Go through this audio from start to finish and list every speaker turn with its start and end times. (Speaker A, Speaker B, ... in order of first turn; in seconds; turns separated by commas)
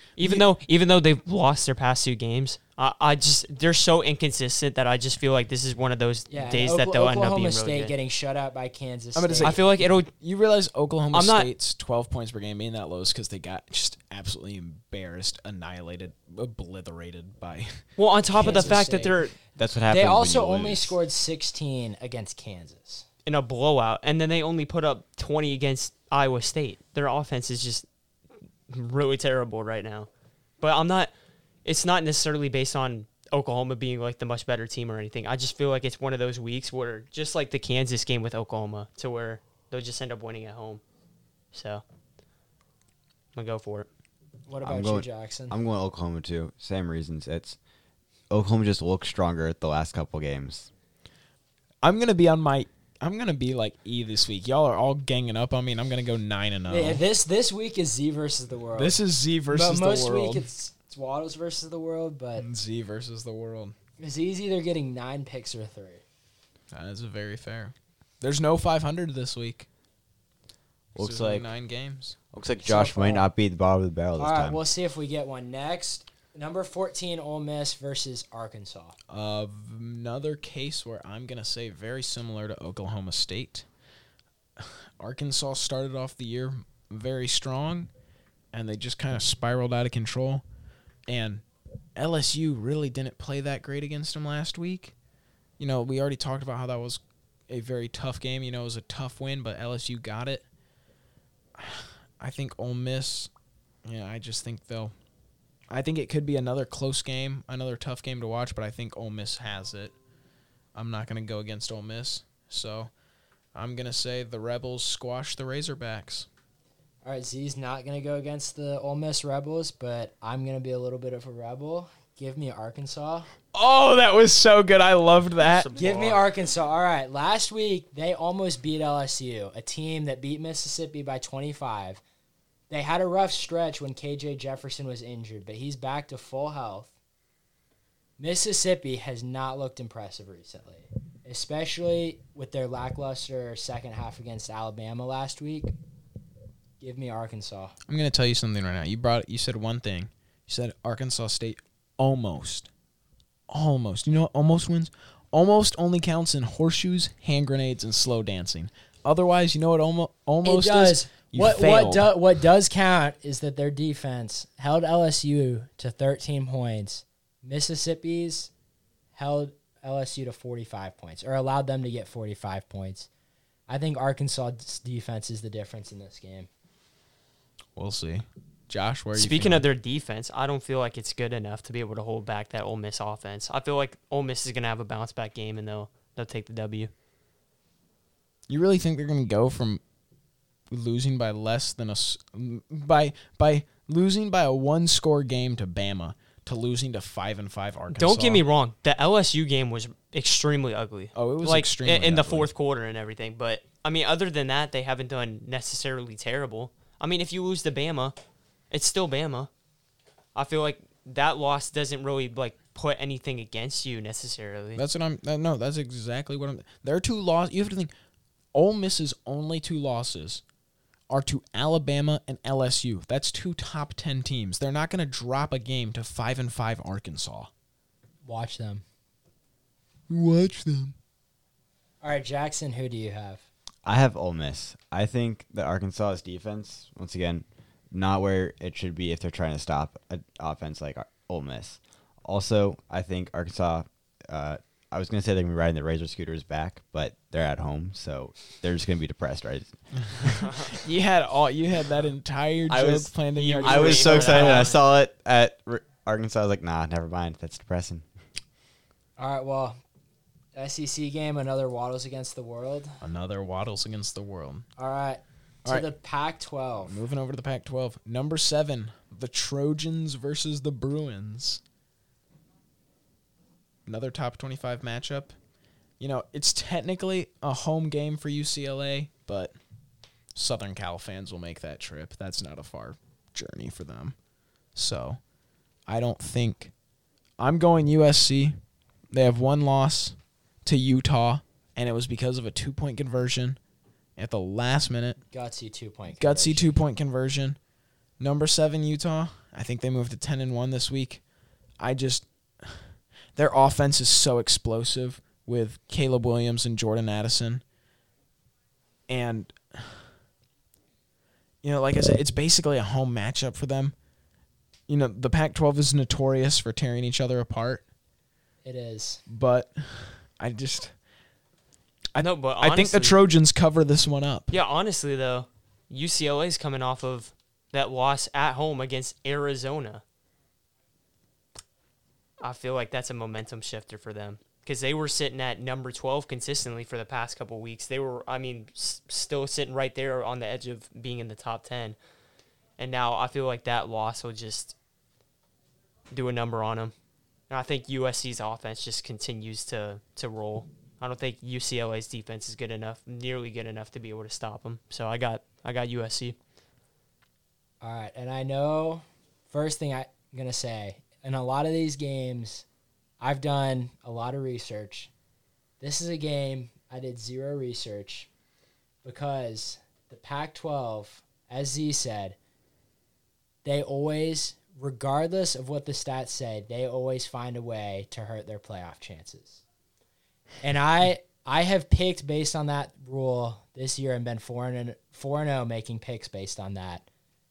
Speaker A: 0.2-7.9, Speaker B: 0.2-0.4, Speaker C: 6.3-9.6, Speaker B: 9.2-18.9, Speaker A: 9.4-10.1, Speaker A: 11.1-11.5, Speaker A: 18.0-19.4, Speaker C: 18.3-19.3, Speaker D: 19.6-21.0, Speaker C: 19.8-23.1, Speaker A: 23.2-27.9, Speaker A: 28.7-30.1, Speaker A: 30.6-31.1, Speaker A: 31.6-40.8, Speaker A: 41.5-41.8, Speaker A: 43.4-43.9, Speaker C: 44.5-45.6, Speaker D: 44.6-47.6, Speaker D: 48.3-50.7, Speaker B: 51.8-57.0, Speaker C: 56.7-62.5, Speaker B: 58.8-60.5, Speaker B: 62.4-63.7, Speaker C: 64.0-66.0, Speaker B: 66.7-69.7, Speaker D: 71.0-71.5, Speaker B: 71.0-72.2, Speaker D: 72.3-74.6, Speaker C: 72.6-73.3, Speaker C: 74.2-79.0, Speaker B: 79.1-83.6, Speaker B: 84.6-87.9, Speaker B: 88.5-90.4, Speaker B: 91.1-91.4, Speaker B: 92.0-94.9, Speaker B: 95.6-100.5, Speaker B: 101.6-103.3, Speaker B: 103.8-104.9, Speaker B: 105.7-109.9, Speaker B: 110.8-112.9, Speaker B: 113.5-116.3, Speaker C: 117.0-123.3, Speaker B: 123.5-125.8, Speaker A: 125.4-126.3, Speaker C: 125.8-132.0, Speaker C: 132.7-136.9, Speaker C: 138.2-145.7, Speaker C: 146.8-147.7, Speaker B: 147.9-152.7, Speaker B: 153.5-162.1, Speaker C: 160.4-168.5, Speaker C: 169.1-173.1, Speaker C: 173.7-176.5, Speaker B: 177.8-179.6, Speaker A: 179.1-186.9, Speaker B: 188.5-189.8, Speaker B: 190.7-198.4, Speaker A: 197.9-208.1, Speaker B: 201.1-202.5, Speaker A: 208.7-209.5, Speaker A: 210.3-214.8, Speaker B: 214.8-217.9, Speaker B: 218.5-220.4, Speaker B: 221.1-227.5, Speaker C: 228.2-228.8, Speaker B: 230.1-230.9, Speaker C: 232.0-233.5, Speaker D: 233.8-250.6, Speaker B: 250.2-254.7, Speaker D: 252.7-258.1, Speaker A: 253.3-254.8, Speaker C: 259.2-259.8, Speaker C: 260.6-263.0, Speaker B: 263.0-264.7, Speaker C: 264.8-266.9, Speaker B: 266.9-271.6, Speaker B: 273.9-275.3, Speaker B: 276.0-279.5, Speaker B: 280.4-284.2, Speaker B: 284.8-285.2, Speaker B: 285.9-286.7, Speaker B: 287.4-288.6, Speaker B: 289.1-293.6, Speaker B: 294.2-295.2, Speaker C: 295.3-296.8, Speaker B: 296.2-297.6, Speaker B: 298.2-301.2, Speaker B: 301.8-307.6, Speaker B: 309.1-310.0, Speaker B: 311.6-313.9, Speaker B: 314.9-317.9, Speaker C: 318.6-319.2, Speaker B: 319.3-320.9, Speaker B: 322.1-324.5, Speaker A: 322.2-323.2, Speaker A: 324.5-330.0, Speaker A: 332.4-342.0, Speaker A: 342.8-344.8, Speaker A: 346.1-346.9, Speaker A: 347.5-356.4, Speaker C: 357.8-362.6, Speaker C: 363.2-365.1, Speaker C: 365.8-368.3, Speaker C: 369.0-372.4, Speaker C: 373.6-379.6, Speaker C: 380.6-387.1